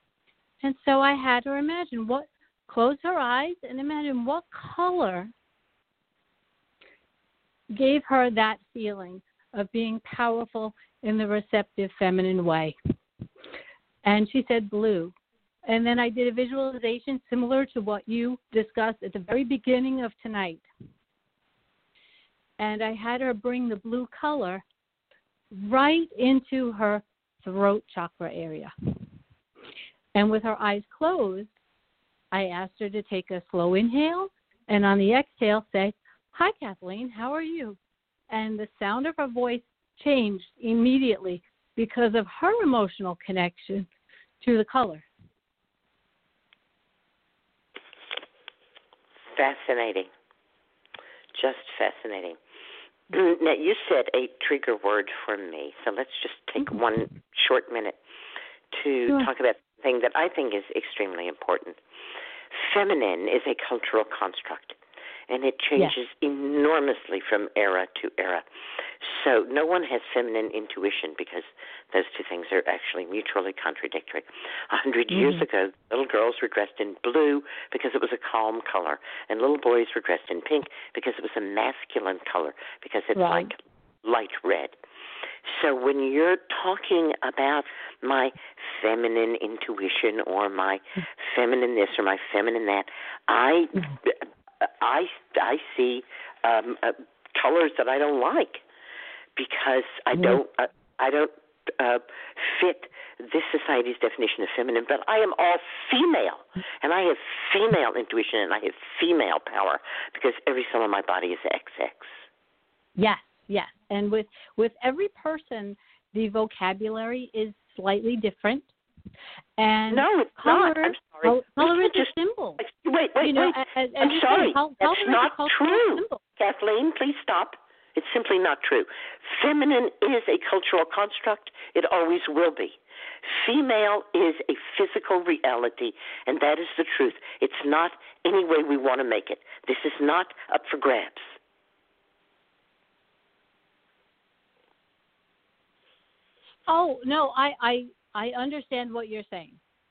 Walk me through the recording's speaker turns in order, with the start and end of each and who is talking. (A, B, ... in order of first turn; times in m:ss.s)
0:00.6-0:05.3 A
0:07.7-0:12.8 A
0:14.0-0:15.1 A
0:15.7-0:20.7 A
0:22.6-0:24.6 A
0:25.5-0:28.7 A
0:30.2-0:31.5 A
0:32.3-0:37.8 A
0:38.3-0:43.9 A
0:44.4-0:45.0 A
0:49.3-0:50.1 B
0:51.3-0:52.4 B
0:53.1-0:58.0 B
0:58.7-1:01.8 B
1:02.5-1:04.8 B
1:05.3-1:08.5 B
1:09.0-1:24.8 B
1:15.1-1:15.4 A
1:23.2-1:23.5 A
1:25.4-1:38.6 B
1:39.4-1:52.2 B
1:53.0-1:58.7 A
1:59.6-2:02.6 A
1:59.9-2:21.4 B
2:03.2-2:06.2 A
2:26.7-2:29.6 A